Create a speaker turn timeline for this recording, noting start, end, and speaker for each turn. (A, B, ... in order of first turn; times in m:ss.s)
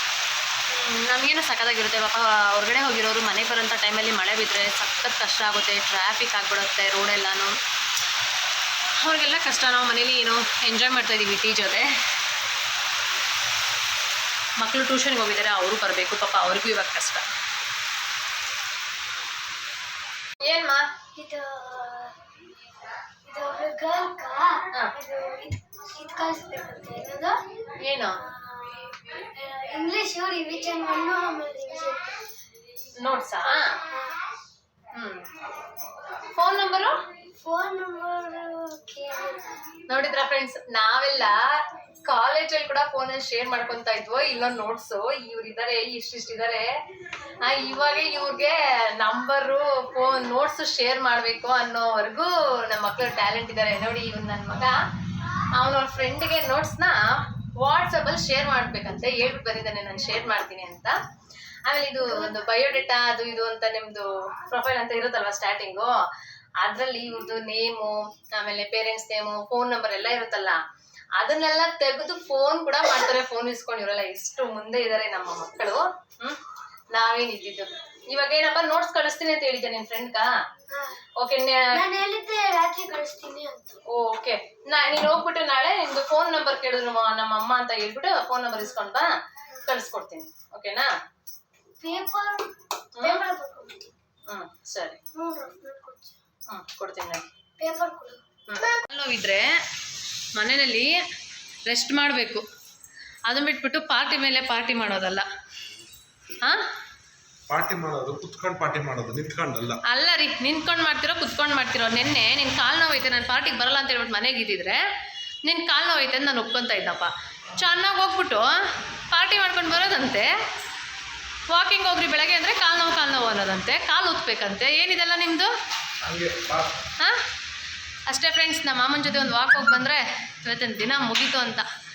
0:00.7-0:07.6 A
0:09.0-0:11.9 A
0:14.6-0:17.2 A
0:20.4-0:20.8 A
0:21.1-0:22.2 B
0:23.3-0:27.4 B
0:27.8-0:28.2 A
0:28.2-0:32.3 B
0:33.0-0:33.8 A
0:34.9-0:35.3 A
0:36.3-0:37.0 A
0:37.3-0:39.6 B
0:39.9-0:41.4 A
0:42.1-0:46.6 A
0:47.4-0:54.8 A
0:55.5-0:57.0 A
0:57.6-1:01.0 A
1:01.7-1:05.9 A
1:06.6-1:10.6 A
1:11.2-1:16.4 A
1:16.9-1:20.3 A
1:20.7-1:21.0 B
1:21.2-1:21.8 A
1:21.7-1:23.8 B
1:23.9-1:29.1 A
1:29.6-1:30.9 A
1:31.8-1:33.9 B
1:33.0-1:33.2 A
1:34.3-1:35.0 A
1:35.1-1:36.2 B
1:36.5-1:37.3 A
1:37.6-1:38.8 B
1:38.5-1:39.5 A
1:40.4-1:41.0 A
1:41.7-1:42.4 A
1:43.3-1:45.2 A
1:47.5-1:49.8 C
1:49.9-1:54.8 A
1:55.4-1:58.6 A
1:59.1-2:00.3 A
2:01.5-2:05.5 A
2:06.0-2:06.8 C
2:08.1-2:11.7 A